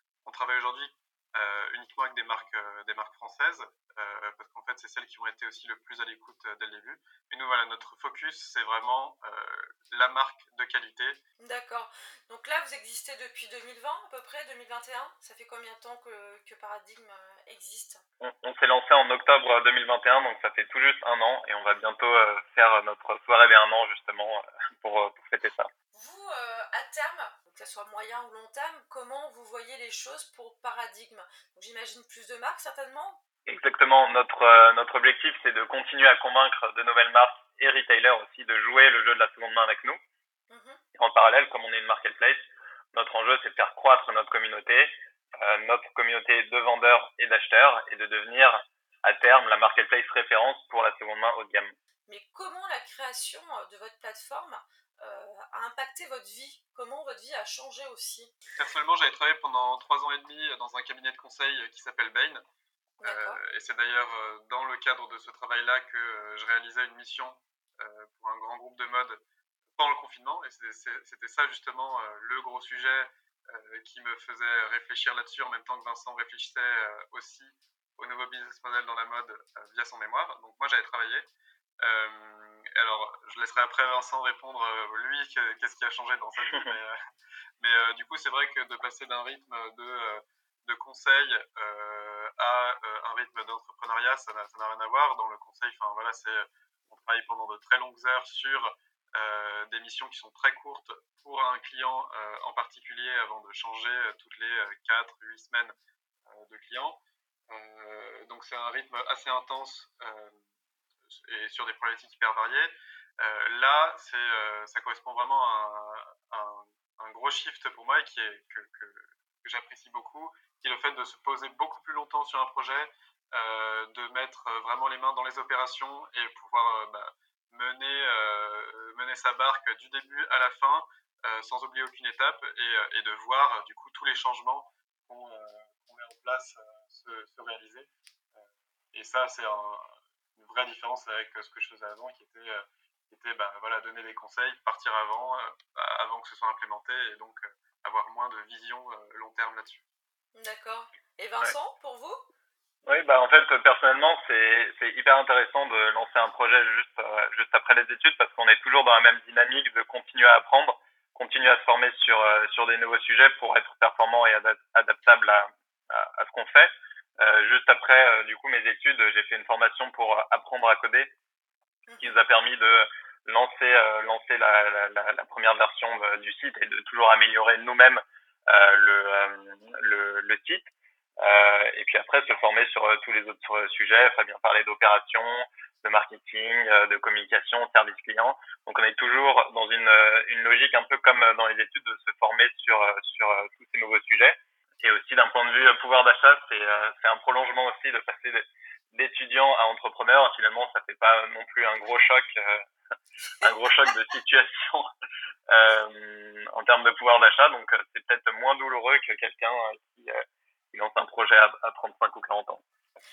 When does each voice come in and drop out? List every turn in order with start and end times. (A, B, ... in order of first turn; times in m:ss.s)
0:00.2-0:11.2 A
0:11.4-0:18.0 B
0:18.2-0:25.7 C
0:25.9-0:33.2 B
0:33.5-0:40.0 C
0:40.5-0:40.8 B
0:41.0-0:51.8 C
0:52.1-0:58.4 B
0:58.6-1:02.4 A
1:03.0-1:03.4 B
1:03.0-1:09.2 A
1:09.8-1:21.3 A
1:21.8-1:27.0 A
1:27.6-1:45.8 A
1:46.3-1:50.4 A
1:51.1-2:29.8 A
2:30.4-2:32.2 B
2:32.9-2:51.1 C
2:51.9-2:52.2 B
2:52.0-3:00.7 C
3:01.2-3:22.6 C
3:23.4-3:24.9 C
3:25.5-3:30.2 C
3:30.7-3:32.6 C